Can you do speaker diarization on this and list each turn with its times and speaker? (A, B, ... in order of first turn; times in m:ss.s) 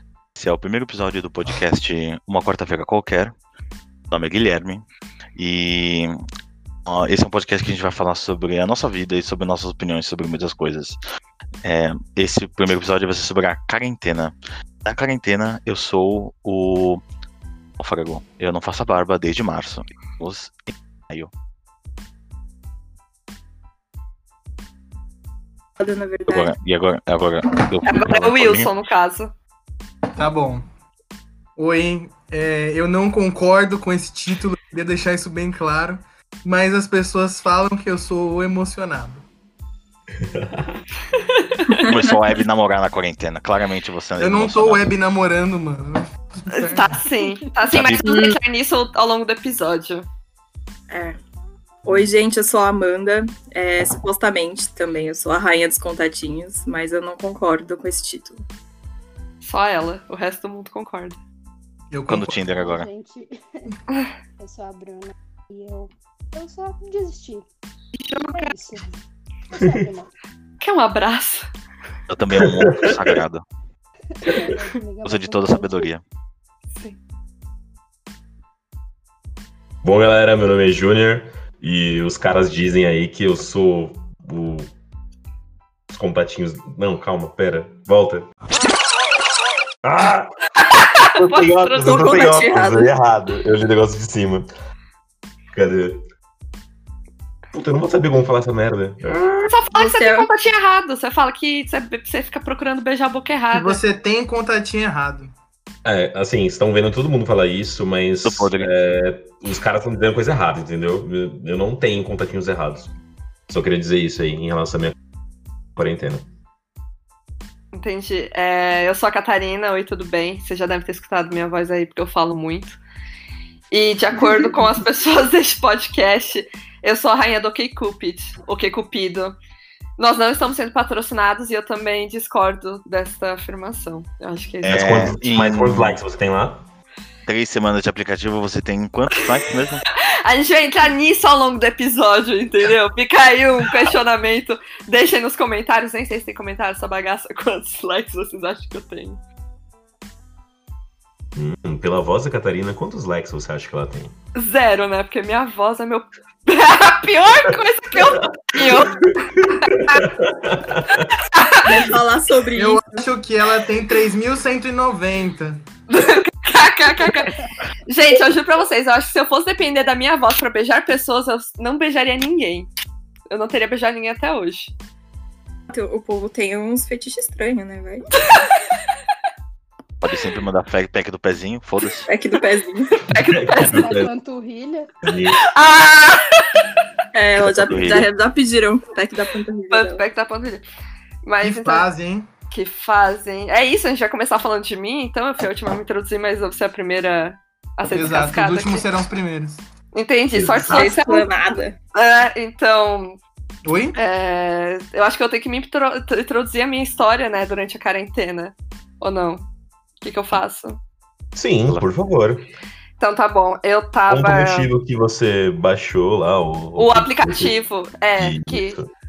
0:00.4-0:03.4 A
0:04.1-0:04.8 A
0:05.4-0:06.2 A
0:06.9-0:11.0 A
0:11.6-0:17.0 A
0:17.8-0:21.3 A
0:25.8-0:26.6 B
0:26.3-0:28.7 A
0:27.8-0:29.3 C
0:30.2-0:30.6 D
0:31.6-0:39.2 D
0:40.2-0:40.6 E
0:41.3-0:41.8 C
0:41.8-0:44.9 A
0:41.9-0:42.2 B
0:44.2-0:47.0 D
0:46.5-0:50.1 C
0:47.7-0:48.3 A
0:48.0-0:48.4 B
0:50.9-0:51.2 B
0:51.8-0:58.4 B
0:59.4-1:01.2 C
1:01.9-1:02.4 D
1:02.1-1:02.9 A
1:02.5-1:03.8 F
1:04.4-1:07.5 F
1:08.0-1:08.6 C
1:08.2-1:10.1 F
1:09.6-1:09.8 E
1:10.6-1:11.5 C
1:12.1-1:13.4 A
1:12.3-1:13.2 E
1:14.2-1:15.9 F
1:15.0-1:16.0 A
1:19.8-1:24.7 E
1:25.9-1:28.3 E
1:29.8-1:30.3 E
1:30.7-1:32.4 C
1:31.2-1:34.5 E
1:31.8-1:32.9 B
1:35.5-1:36.0 E
1:37.5-1:39.5 E
1:39.4-1:43.8 C
1:39.8-1:40.3 B
1:43.5-1:45.3 D
1:45.8-1:52.9 E
1:48.2-1:48.7 A
1:53.5-1:55.0 E
1:55.8-1:56.3 E
1:57.7-2:02.8 C
2:03.7-2:09.4 C
2:04.2-2:04.5 B
2:10.0-2:15.1 C
2:14.6-2:16.0 A
2:14.7-2:16.6 E
2:17.3-2:19.8 A
2:20.0-2:29.2 C
2:31.4-2:34.1 E
2:34.4-2:40.1 C
2:38.5-2:39.0 E
2:39.7-2:41.1 E
2:40.9-2:41.9 C
2:41.6-2:43.1 B
2:42.6-2:45.6 D
2:45.9-2:52.7 C
2:53.3-2:54.7 C
2:55.7-2:58.1 B
3:00.0-3:02.1 A
3:02.1-3:03.0 B
3:03.0-3:03.9 C
3:03.1-3:04.1 E
3:03.7-3:04.9 F
3:05.0-3:05.4 E
3:05.4-3:06.4 C
3:07.1-3:10.0 B
3:07.4-3:08.1 A
3:09.7-3:10.6 C
3:11.2-3:11.9 C
3:11.4-3:12.3 D
3:12.5-3:18.9 C
3:17.9-3:19.6 D
3:19.9-3:21.3 C
3:20.3-3:20.9 E
3:20.6-3:21.8 B
3:21.9-3:23.2 C
3:23.6-3:24.0 D
3:24.0-3:29.5 C
3:30.0-3:30.8 C
3:31.4-3:32.5 E
3:33.0-3:34.7 C
3:34.1-3:37.6 E
3:36.8-3:38.8 C
3:38.2-3:38.8 E